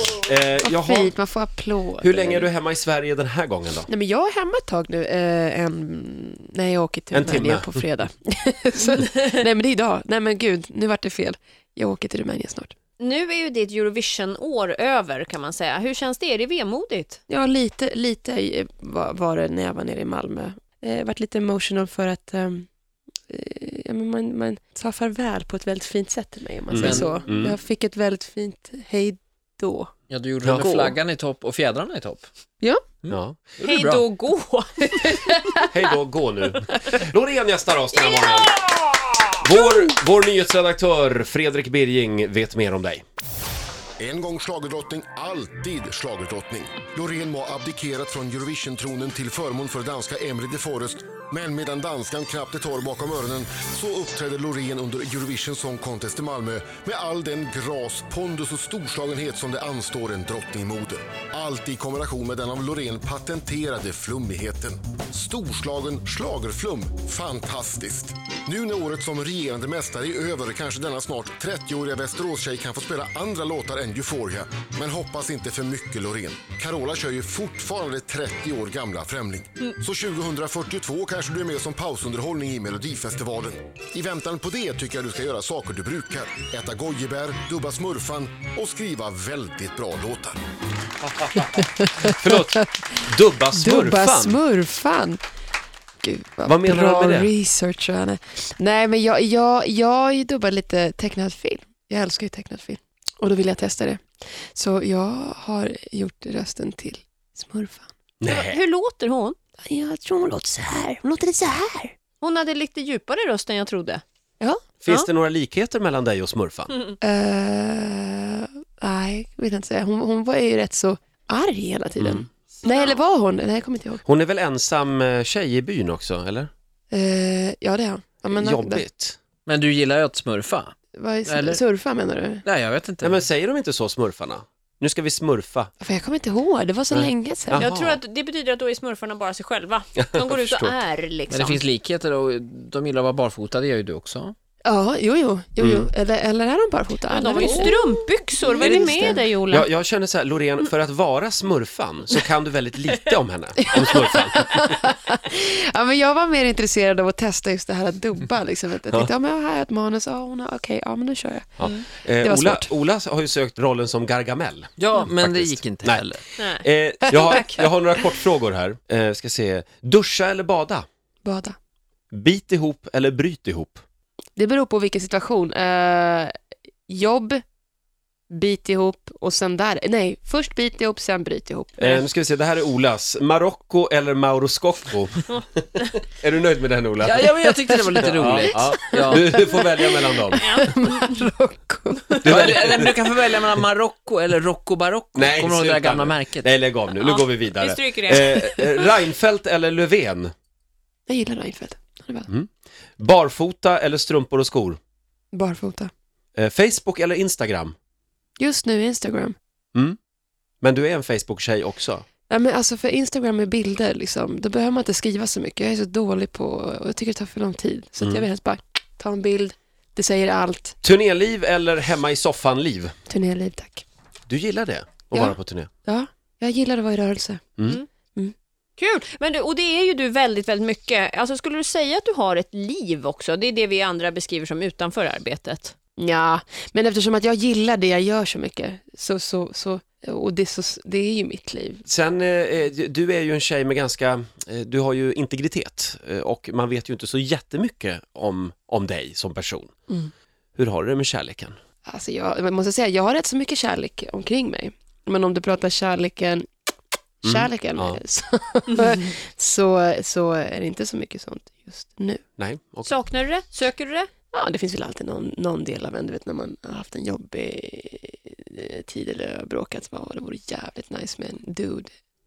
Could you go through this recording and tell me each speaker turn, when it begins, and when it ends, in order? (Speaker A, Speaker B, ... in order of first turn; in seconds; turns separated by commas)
Speaker A: 0.2-1.1, Speaker B: 0.6-2.5, Speaker A: 2.0-3.9, Speaker B: 3.9-12.7, Speaker A: 7.1-7.8, Speaker C: 13.0-17.2, Speaker B: 17.3-22.7, Speaker B: 23.3-29.9, Speaker A: 26.7-27.6, Speaker D: 26.8-27.4, Speaker D: 30.1-32.3, Speaker A: 30.4-30.9, Speaker D: 33.0-34.0, Speaker A: 33.1-33.4, Speaker C: 33.6-35.7, Speaker A: 35.7-38.6, Speaker C: 37.9-39.2, Speaker A: 39.4-43.0, Speaker E: 44.0-90.4, Speaker A: 91.2-94.4, Speaker B: 91.6-92.6, Speaker B: 93.5-95.2, Speaker B: 96.0-104.0, Speaker A: 96.5-97.3, Speaker B: 104.5-107.9, Speaker A: 108.2-108.6, Speaker C: 108.3-109.4, Speaker B: 109.7-112.0, Speaker C: 112.2-114.0, Speaker A: 114.8-116.7, Speaker B: 117.0-124.0, Speaker A: 122.0-122.3, Speaker C: 122.7-123.0, Speaker A: 124.0-126.5, Speaker B: 126.9-128.8, Speaker A: 128.3-129.2, Speaker D: 129.5-130.8, Speaker B: 130.9-132.4, Speaker D: 131.3-131.6, Speaker D: 132.4-133.2, Speaker A: 133.0-135.7, Speaker B: 135.8-137.7, Speaker A: 136.9-138.0, Speaker C: 137.6-141.6, Speaker A: 140.0-140.8, Speaker D: 141.3-144.3, Speaker B: 144.6-149.3, Speaker A: 145.6-145.9, Speaker C: 147.1-149.7, Speaker A: 148.6-154.6, Speaker B: 153.6-162.7, Speaker A: 161.6-166.1, Speaker D: 164.8-166.3, Speaker C: 166.4-166.7, Speaker A: 166.6-170.9, Speaker B: 167.0-167.7, Speaker C: 167.2-167.5, Speaker B: 171.2-171.6, Speaker A: 172.1-173.8, Speaker B: 174.4-176.3, Speaker B: 176.9-177.4, Speaker B: 178.3-181.8, Speaker A: 181.8-187.3, Speaker D: 187.0-189.3, Speaker A: 187.9-190.5, Speaker B: 188.8-192.5, Speaker C: 190.4-190.7, Speaker A: 192.2-192.9, Speaker D: 192.2-196.5, Speaker A: 195.2-200.3, Speaker C: 196.9-198.9, Speaker B: 201.1-202.3, Speaker A: 202.3-204.8, Speaker B: 205.3-205.9, Speaker A: 206.4-207.8, Speaker B: 208.4-209.4, Speaker A: 210.6-212.1, Speaker B: 212.3-220.8, Speaker A: 218.0-218.2, Speaker A: 220.8-222.9, Speaker B: 223.1-223.8, Speaker A: 224.3-225.7, Speaker B: 225.1-227.4, Speaker C: 228.8-235.7, Speaker B: 236.0-241.8, Speaker A: 241.9-249.7, Speaker A: 250.6-251.6, Speaker B: 251.8-256.5, Speaker B: 257.2-262.2, Speaker A: 257.2-258.0, Speaker A: 262.4-262.9, Speaker C: 262.9-264.1, Speaker B: 264.3-271.9